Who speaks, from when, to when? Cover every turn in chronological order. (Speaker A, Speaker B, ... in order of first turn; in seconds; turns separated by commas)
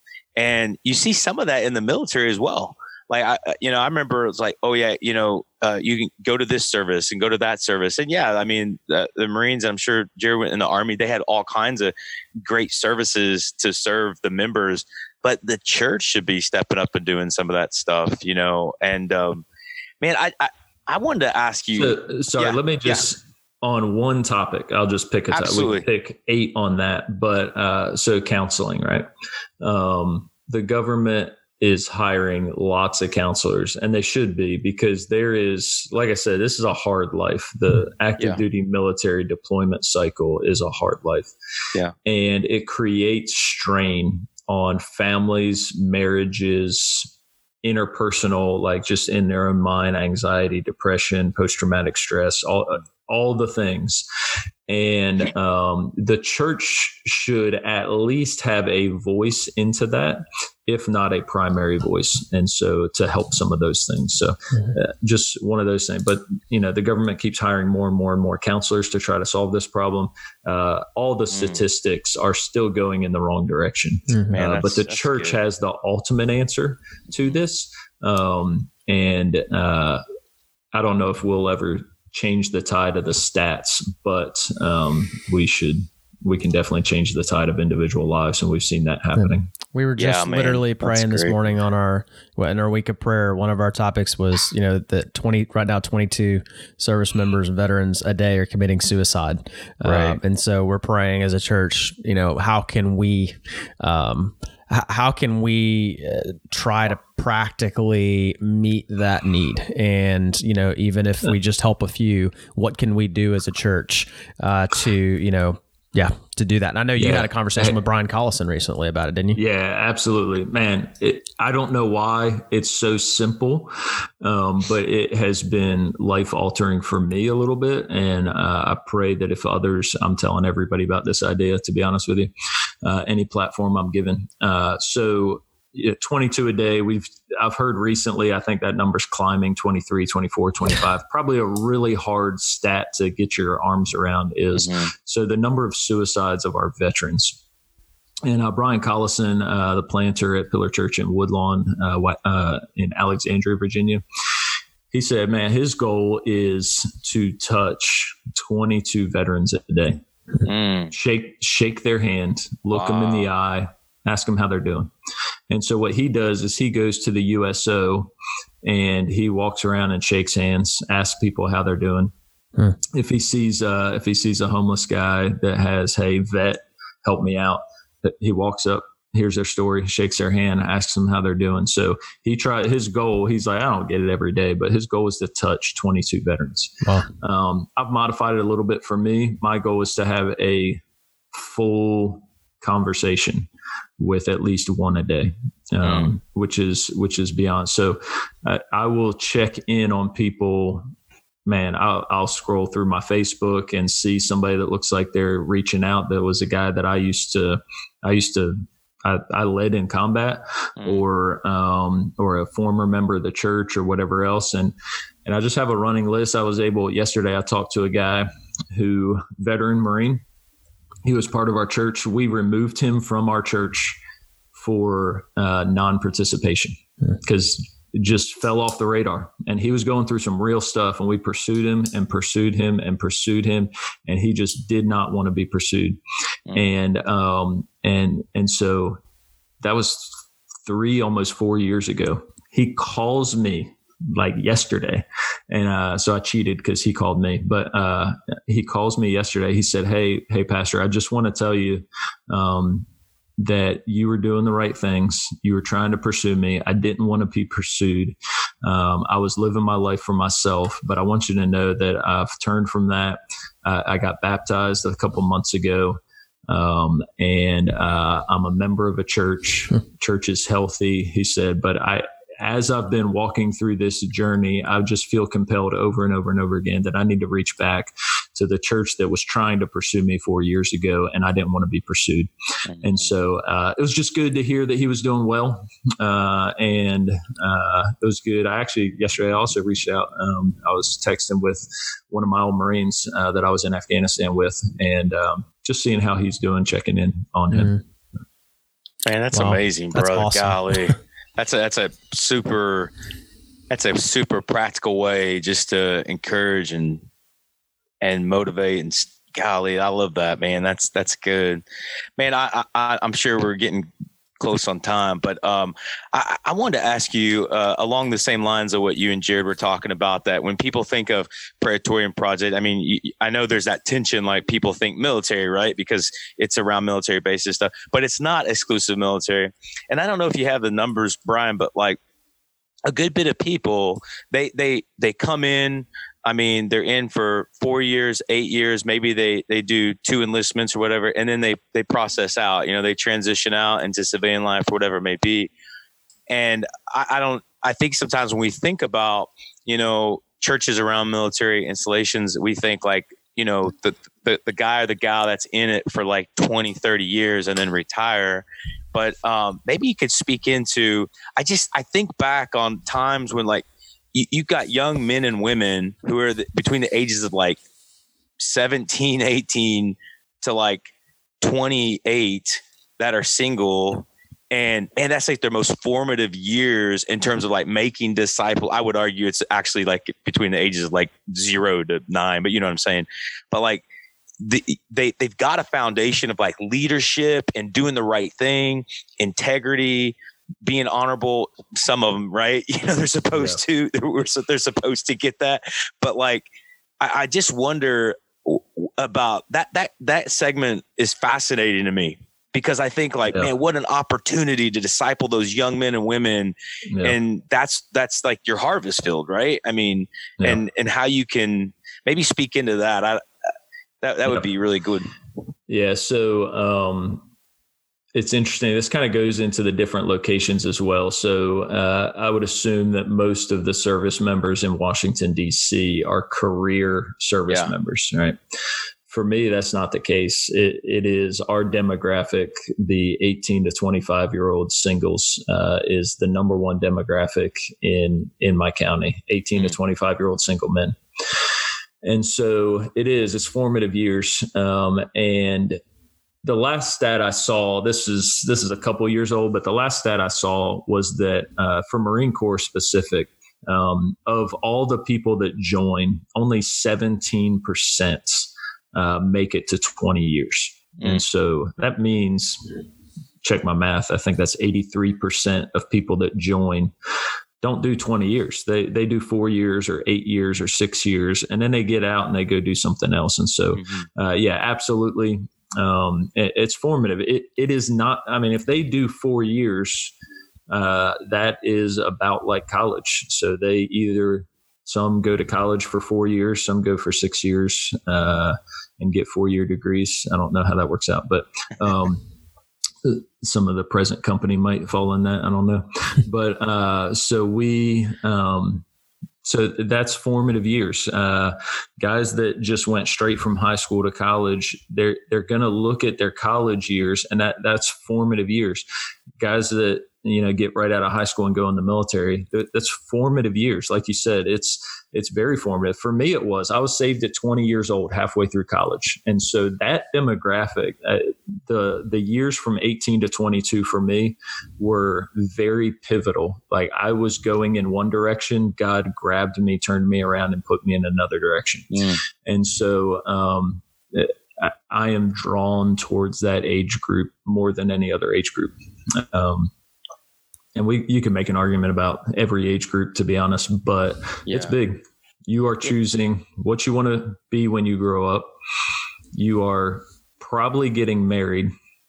Speaker A: 0.3-11.9, Speaker A: 12.4-19.4, Speaker A: 20.0-23.0, Speaker B: 21.7-29.0, Speaker A: 25.3-25.9, Speaker B: 29.6-41.3, Speaker B: 42.0-47.1, Speaker B: 47.6-54.0, Speaker B: 54.7-80.0, Speaker A: 71.3-71.6, Speaker C: 74.1-74.3, Speaker A: 74.3-75.4, Speaker B: 80.7-89.5, Speaker C: 89.2-119.4, Speaker A: 90.0-91.3, Speaker A: 99.8-100.2, Speaker B: 117.0-117.8, Speaker B: 119.3-132.3, Speaker B: 132.8-147.4, Speaker A: 144.5-144.9, Speaker B: 148.2-154.0, Speaker B: 154.9-160.0, Speaker A: 160.4-160.9, Speaker B: 160.9-164.9, Speaker A: 162.7-163.3, Speaker B: 165.5-168.1, Speaker B: 168.6-172.1, Speaker B: 172.8-190.8, Speaker C: 186.8-187.1, Speaker B: 191.3-193.5, Speaker B: 194.0-200.8, Speaker B: 201.4-214.7, Speaker B: 215.2-220.2, Speaker B: 221.0-224.0, Speaker B: 224.5-236.0, Speaker B: 236.5-239.0, Speaker B: 239.6-252.9, Speaker B: 253.4-282.3, Speaker A: 282.7-283.1, Speaker B: 282.8-297.7, Speaker C: 297.5-297.8, Speaker A: 299.1-302.9, Speaker C: 299.3-300.9, Speaker A: 303.7-307.0, Speaker A: 308.0-311.6, Speaker A: 312.2-332.0, Speaker A: 332.9-345.5, Speaker A: 346.3-367.6, Speaker A: 368.4-370.9, Speaker A: 371.4-383.8, Speaker A: 384.4-396.5, Speaker A: 397.0-413.2, Speaker B: 406.9-407.2, Speaker A: 414.0-415.1, Speaker B: 415.7-417.2, Speaker B: 418.1-428.4, Speaker B: 429.1-441.0, Speaker B: 442.0-445.8, Speaker B: 446.4-462.8, Speaker B: 463.4-466.9, Speaker B: 467.6-480.1, Speaker A: 473.7-474.1, Speaker B: 480.7-492.2, Speaker B: 493.0-498.8, Speaker B: 499.4-508.8, Speaker B: 509.4-539.7, Speaker A: 531.9-532.2, Speaker B: 540.7-548.5, Speaker A: 544.5-544.8, Speaker B: 549.3-551.7